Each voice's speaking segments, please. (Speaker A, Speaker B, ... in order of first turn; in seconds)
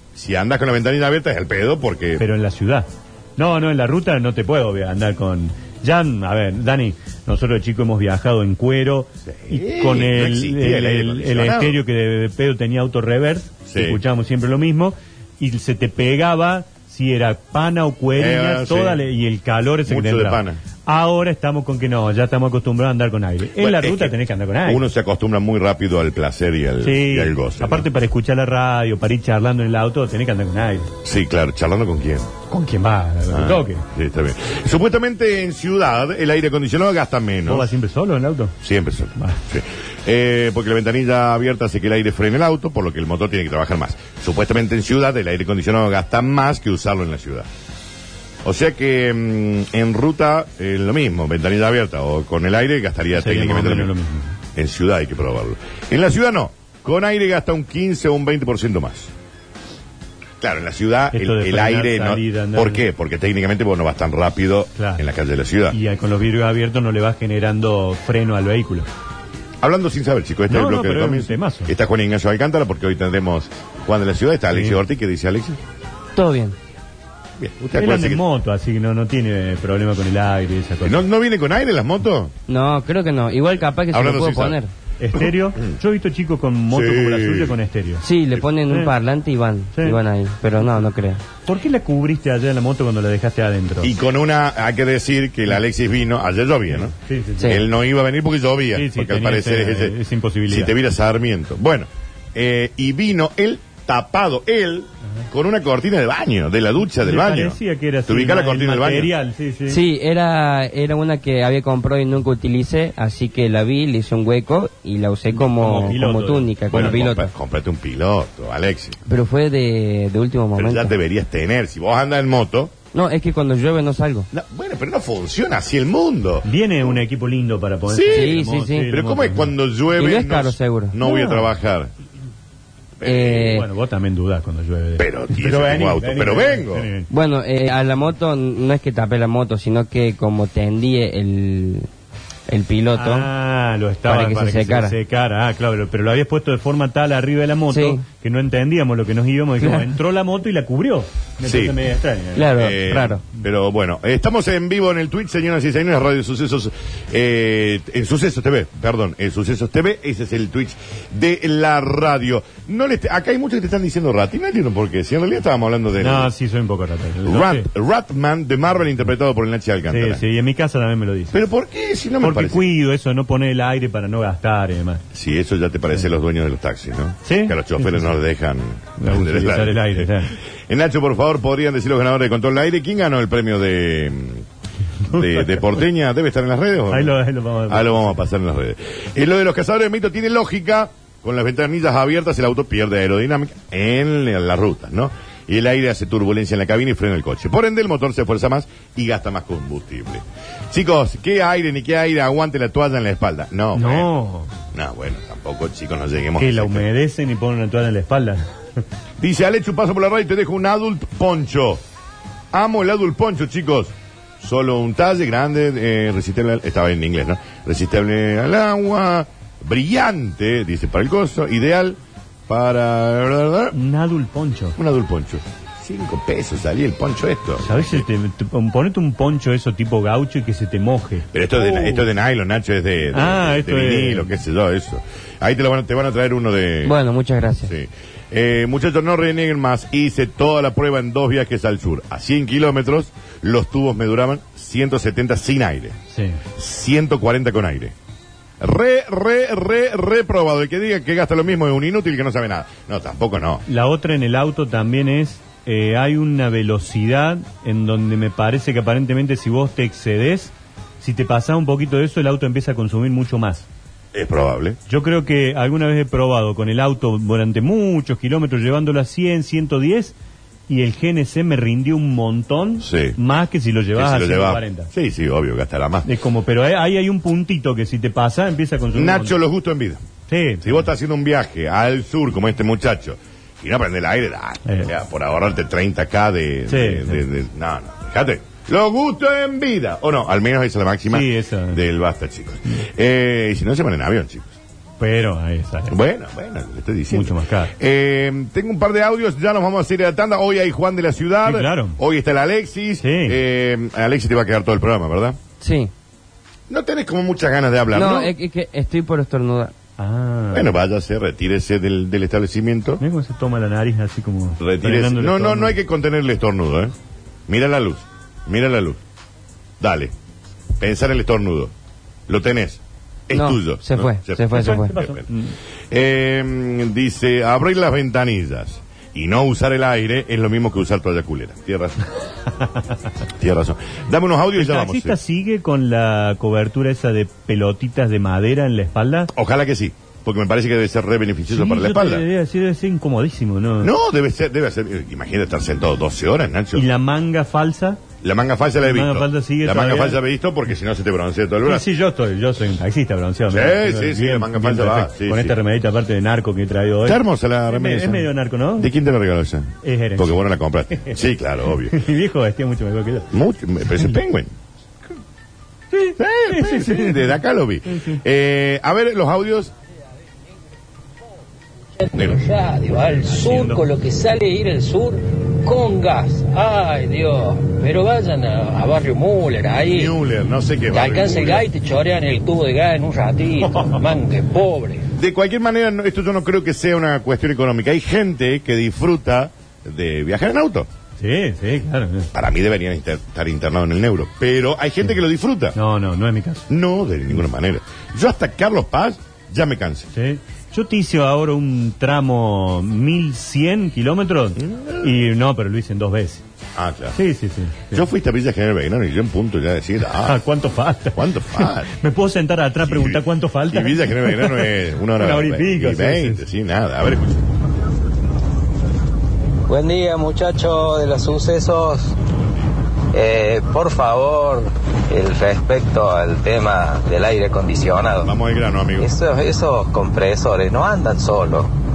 Speaker A: 0.1-2.2, 9.3-11.8, 13.7-14.0, 18.1-19.0, 19.9-20.6, 23.6-27.9, 31.0-32.3, 33.3-37.7, 38.6-47.5, 48.4-53.9, 54.5-59.1, 60.4-65.8, 69.6-75.6, 77.4-78.2, 80.8-82.3, 83.9-84.6, 85.1-85.7, 86.7-87.6, 93.8-100.0, 100.5-109.1, 116.7-119.0, 120.5-122.7, 124.3-127.0, 127.9-131.9, 133.0-133.6, 135.0-136.9, 151.4-151.8, 152.5-166.3, 167.2-170.2, 171.3-172.7, 175.1-184.4, 185.1-204.1, 204.7-206.9, 209.2-211.8, 212.5-223.8, 224.8-228.0, 231.3-236.9, 237.7-246.0, 246.6-247.9, 248.6-253.6, 264.1-264.8, 272.8-273.2, 273.9-276.1, 278.9-280.0, 280.6-294.6, 295.9-305.4, 306.7-308.3, 310.5-313.0, 314.6-316.9, 317.5-319.0, 319.8-320.1, 320.8-321.7, 322.3-325.2, 325.9-332.1, 333.4-335.2, 339.3-342.2, 343.8-346.9, 348.2-351.9, 353.5-355.5, 357.0-362.0, 363.3-364.5, 366.2-369.7, 372.1-372.4, 379.9-381.7, 385.2-390.9, 392.3-395.8, 396.7-400.1, 404.6-405.1, 406.8-407.2, 407.9-410.4, 411.1-411.9, 412.8-417.4, 428.2-429.1
Speaker B: 2.2-24.8, 26.8-30.9, 32.5-33.8, 37.5-38.5, 53.1-54.4, 61.1-62.8, 64.8-65.0, 65.7-68.9, 70.5-71.7, 74.5-74.8, 77.7-81.0, 85.0-88.0, 91.5-93.9, 96.9-97.5, 98.7-100.7, 107.0-109.8, 115.3-117.0, 126.4-129.5, 131.0-131.5, 133.4-137.1, 142.9-152.5, 166.0-167.7, 169.9-171.4, 172.2-175.0, 177.2-178.1, 179.0-180.3, 185.1-185.6, 186.9-188.2, 203.7-204.5, 206.4-208.4, 223.7-224.8, 227.6-232.0, 233.1-234.3, 246.1-246.4, 253.7-263.6, 264.9-270.1, 270.7-274.9, 276.0-279.4, 280.3-280.9, 284.6-284.9, 286.7-287.2, 291.1-291.8, 295.0-295.9, 297.1-297.7, 301.4-302.0, 303.0-303.4, 310.0-310.7, 313.0-315.8, 324.5-325.5, 334.6-339.3, 341.5-343.9, 346.7-348.0, 348.8-350.2, 351.6-358.9, 359.8-361.2, 361.9-363.3, 365.9-367.3, 367.9-368.2, 373.2-373.8, 383.7-384.0, 391.2-392.3, 395.7-396.7, 400.1-406.4, 407.1-408.0, 410.2-416.4
Speaker C: 76.2-76.5, 82.5-84.7, 88.0-91.2, 109.7-117.3, 119.0-120.9, 122.9-124.3, 128.1-128.9, 129.9-130.9, 133.0-133.7, 137.1-141.9, 142.5-143.3, 144.1-144.9, 147.7-148.0, 152.3-153.2, 236.8-237.7, 305.6-305.9, 307.9-309.7, 323.3-325.0
Speaker D: 372.0-380.1, 380.9-385.0
Speaker E: 419.7-422.1, 423.1-428.3, 429.0-431.7